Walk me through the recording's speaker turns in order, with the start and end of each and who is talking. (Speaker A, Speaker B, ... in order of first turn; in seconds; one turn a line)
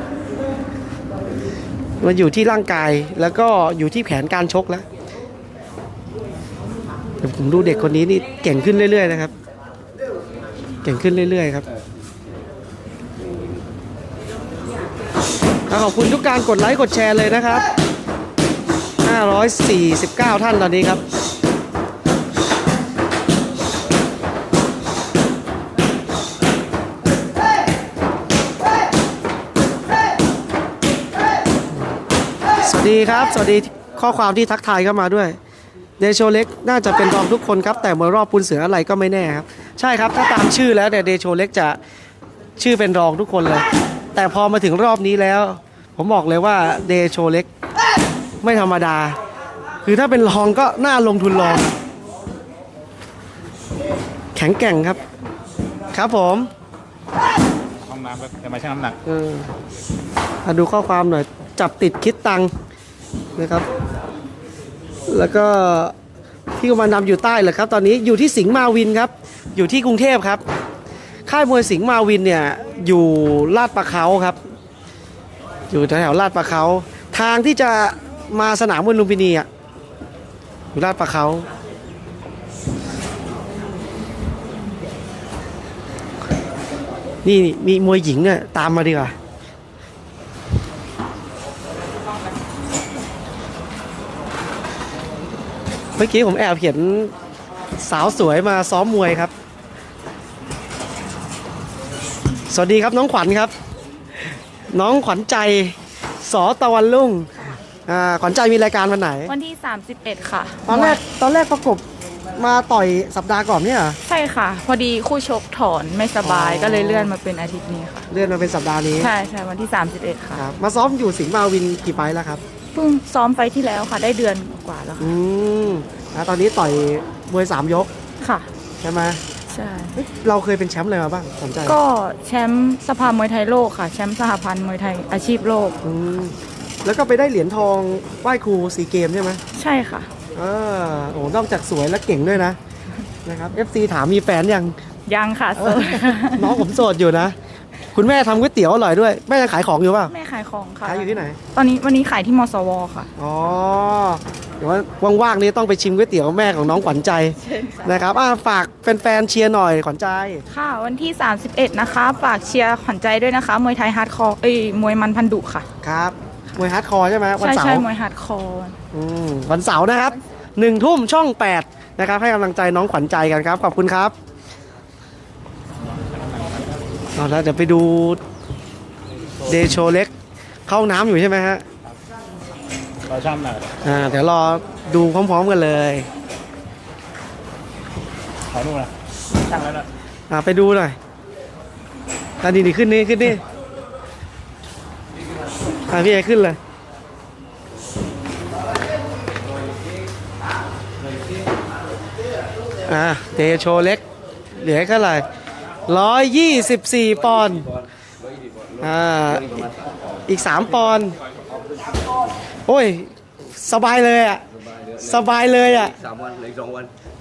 Speaker A: 2.0-4.8
Speaker A: 7.2-9.3
Speaker A: 10.8-11.6
Speaker A: 15.7-17.6
Speaker A: 19.0-21.0
Speaker A: 32.6-35.4
Speaker A: 36.0-41.8
Speaker A: 42.6-43.6
Speaker A: 44.1-47.5
Speaker A: 48.4-49.1
Speaker A: 49.8-51.7
Speaker A: 54.3-55.0
Speaker A: 55.9-56.5
Speaker B: 57.9-59.0
Speaker A: 59.0-59.5
Speaker A: 60.4-62.5
Speaker A: 63.4-63.7
Speaker A: 65.1-65.9
Speaker A: 66.6-70.4
Speaker A: 71.2-74.4
Speaker A: 75.7-79.5
Speaker A: 80.7-81.5
Speaker A: 87.2-89.1
Speaker A: 96.0-97.1
Speaker A: 97.8-99.3
Speaker A: 102.5-103.5
Speaker A: 104.7-107.3
Speaker A: 107.8-109.3
Speaker C: 109.3-111.0
Speaker A: 110.7-111.8
Speaker A: 112.4-114.0
Speaker C: 114.0-118.1
Speaker A: 116.2-117.1
Speaker A: 118.1-119.1
Speaker C: 119.0-120.4
Speaker A: 120.3-122.4
Speaker C: 122.7-125.1
Speaker A: 125.0-127.9
Speaker C: 128.2-128.5
Speaker A: 128.8-129.2
Speaker C: 129.5-130.0
Speaker A: 129.9-131.8
Speaker C: 131.7-135.8
Speaker A: 135.8-139.4
Speaker C: 139.5-140.1
Speaker A: 140.3-142.6
Speaker A: 143.2-144.7
Speaker C: 145.1-146.7
Speaker A: 145.6-147.3
Speaker A: 147.9-150.1
Speaker C: 150.1-153.1
Speaker A: 150.8-151.4
Speaker A: 153.2-160.4
Speaker C: 157.4-158.0
Speaker C: 160.5-165.7
Speaker A: 165.8-167.8
Speaker C: 167.4-168.8
Speaker A: 168.9-174.1
Speaker A: 177.1-178.2
Speaker A: 179.4-180.1
Speaker A: 180.7-181.6
Speaker B: 183.1-183.7
Speaker A: 183.8-186.1
Speaker B: 188.5-188.9
Speaker B: 189.5-189.8
Speaker A: 190.3-190.9
Speaker A: 192.4-193.4
Speaker A: 195.9-196.6
Speaker A: 202.9-204.0
Speaker A: 204.6-205.2
Speaker A: 205.9-207.7
Speaker A: 208.8-209.7
Speaker A: 210.3-211.1
Speaker A: 212.7-214.4
Speaker D: 214.8-216.9
Speaker A: 215.0-215.9